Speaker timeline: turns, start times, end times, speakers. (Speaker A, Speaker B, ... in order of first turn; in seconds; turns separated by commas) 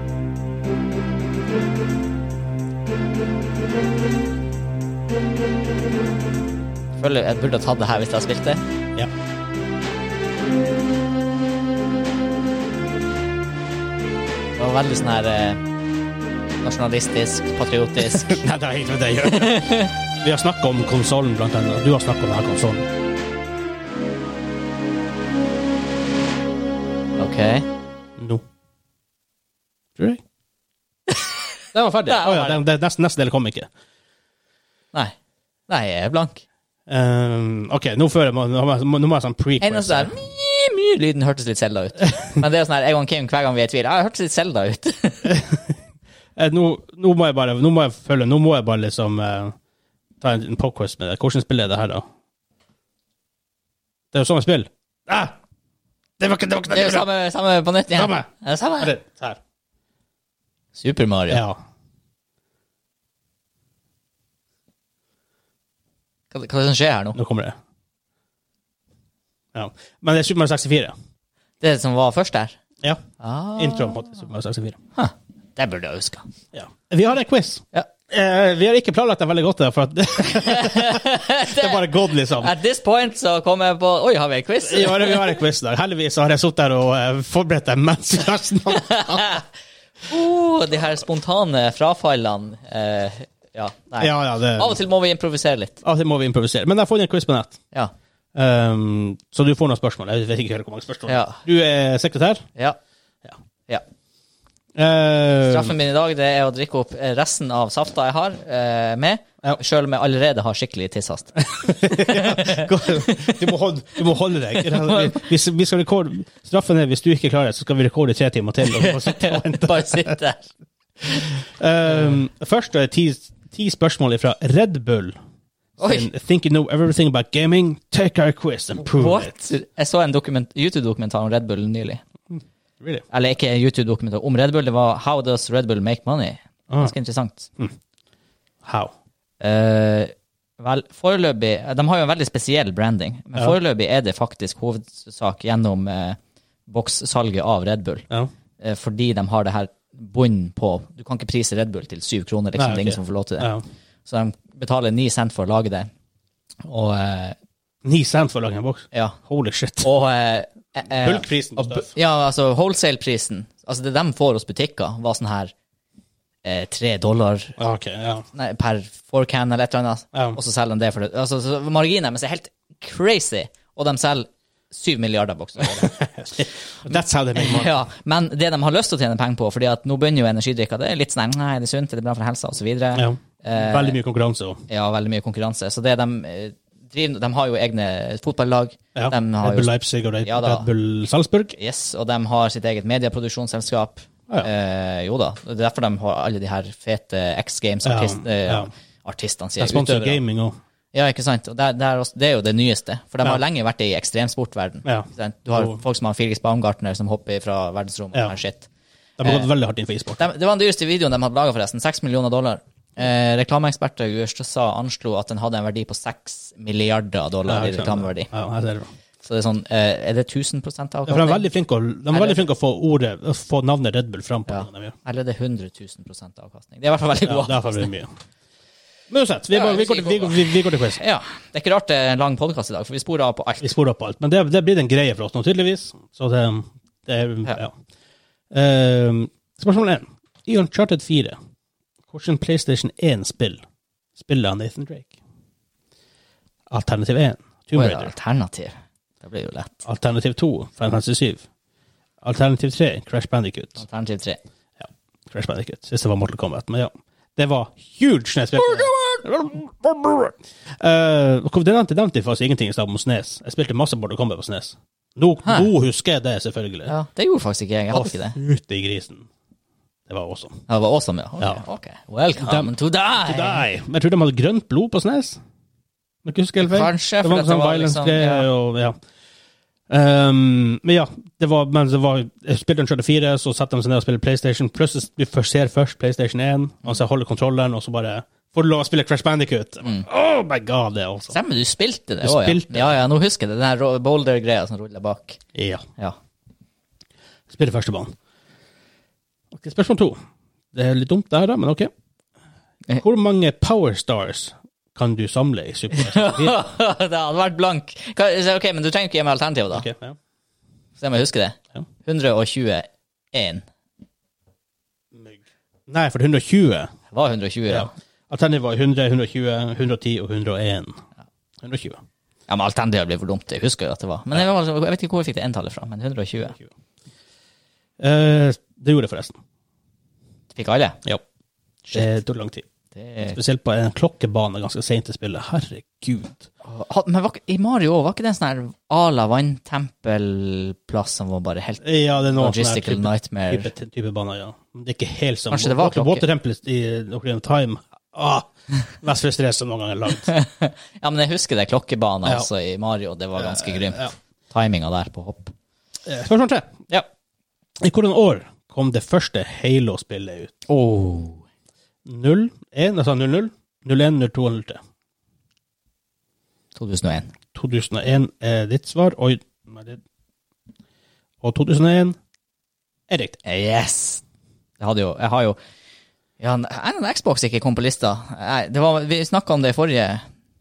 Speaker A: 7.0-8.6, Speaker A: 14.6-15.6, Speaker A: 16.6-18.4, Speaker B: 18.1-22.9, Speaker A: 19.2-19.9, Speaker A: 27.2-27.6, Speaker B: 28.2-28.4, Speaker B: 30.0-30.2, Speaker A: 31.1-31.4, Speaker B: 31.7-33.7, Speaker A: 32.0-32.6, Speaker A: 35.7-36.4, Speaker B: 36.9-40.1, Speaker A: 39.6-45.4, Speaker B: 45.2-45.7, Speaker B: 46.4-49.5, Speaker B: 50.2-52.0, Speaker B: 54.1-55.3, Speaker B: 56.2-57.1, Speaker A: 56.7-58.9, Speaker B: 57.9-58.3, Speaker B: 58.8-59.4, Speaker A: 60.7-61.4, Speaker B: 61.3-61.6, Speaker A: 66.3-67.2, Speaker B: 67.1-67.6, Speaker B: 69.5-70.9, Speaker A: 71.6-72.6, Speaker A: 73.2-74.2, Speaker B: 73.5-74.8, Speaker A: 75.0-76.2, Speaker B: 76.5-82.5, Speaker A: 80.2-85.3, Speaker B: 84.6-89.3, Speaker A: 88.7-89.5, Speaker A: 90.0-95.8, Speaker B: 94.0-94.8, Speaker B: 95.8-97.6, Speaker B: 98.3-102.5, Speaker A: 101.1-101.4, Speaker B: 104.8-105.7, Speaker A: 105.5-113.5, Speaker B: 111.5-120.2, Speaker A: 114.5-115.3, Speaker A: 118.7-120.5, Speaker B: 121.0-125.2, Speaker A: 121.9-122.1, Speaker A: 125.8-126.1, Speaker B: 125.8-129.3, Speaker A: 128.8-132.0, Speaker B: 132.3-133.0, Speaker A: 133.1-137.5, Speaker B: 138.6-138.9, Speaker A: 139.4-148.1, Speaker A: 148.6-153.5, Speaker B: 152.6-153.6, Speaker A: 154.1-155.9, Speaker A: 156.6-157.3, Speaker B: 157.8-159.9, Speaker A: 158.9-159.2, Speaker A: 159.8-165.5, Speaker B: 161.0-161.9, Speaker A: 166.4-167.5, Speaker B: 167.6-168.2, Speaker A: 168.3-176.0, Speaker B: 175.6-177.7, Speaker A: 177.3-184.0, Speaker B: 182.9-184.6, Speaker A: 184.7-189.7, Speaker B: 188.9-191.5, Speaker A: 190.2-190.7, Speaker A: 191.6-200.2, Speaker B: 197.8-198.7, Speaker B: 199.6-200.6, Speaker A: 200.9-208.7, Speaker B: 204.8-205.8, Speaker B: 209.2-210.2, Speaker A: 210.2-218.3, Speaker B: 217.5-218.9, Speaker A: 219.2-221.4, Speaker B: 221.1-224.9, Speaker A: 222.1-222.4, Speaker A: 224.5-227.9, Speaker B: 227.2-228.1, Speaker B: 229.1-231.0, Speaker A: 229.5-233.7, Speaker B: 233.6-237.7, Speaker B: 238.5-241.3, Speaker B: 242.1-243.6, Speaker B: 244.2-245.1, Speaker B: 246.7-248.1, Speaker A: 247.7-249.7, Speaker B: 249.8-251.4, Speaker B: 252.2-253.8, Speaker A: 253.8-254.4, Speaker B: 254.8-266.9, Speaker A: 265.4-265.7, Speaker A: 266.9-268.4, Speaker B: 267.9-269.3, Speaker B: 270.1-270.6, Speaker A: 270.7-273.7, Speaker B: 272.4-275.4, Speaker B: 276.2-278.9, Speaker A: 276.6-278.5, Speaker B: 279.9-291.4, Speaker A: 291.3-295.4, Speaker B: 292.2-293.0, Speaker B: 295.5-295.8, Speaker B: 297.5-298.1, Speaker B: 299.5-300.2, Speaker B: 300.7-301.9, Speaker B: 303.0-306.6, Speaker A: 305.9-309.9, Speaker B: 309.7-310.2, Speaker A: 311.0-313.6, Speaker B: 315.1-316.9, Speaker A: 317.1-317.9, Speaker B: 317.7-321.0, Speaker B: 321.6-322.0, Speaker A: 322.5-326.6, Speaker B: 328.0-329.4, Speaker A: 330.5-331.0, Speaker B: 331.9-332.6, Speaker A: 332.9-333.4, Speaker B: 333.3-336.5, Speaker A: 336.6-343.7, Speaker B: 341.8-350.3, Speaker A: 345.5-346.3, Speaker A: 350.2-355.5, Speaker B: 353.4-354.1, Speaker B: 356.1-356.7, Speaker B: 357.8-360.5, Speaker A: 360.7-361.4, Speaker B: 362.0-364.8, Speaker A: 366.8-367.3, Speaker B: 367.5-370.0, Speaker B: 371.4-372.2, Speaker B: 373.1-373.4, Speaker A: 373.4-374.2, Speaker A: 374.8-375.6, Speaker A: 376.4-380.2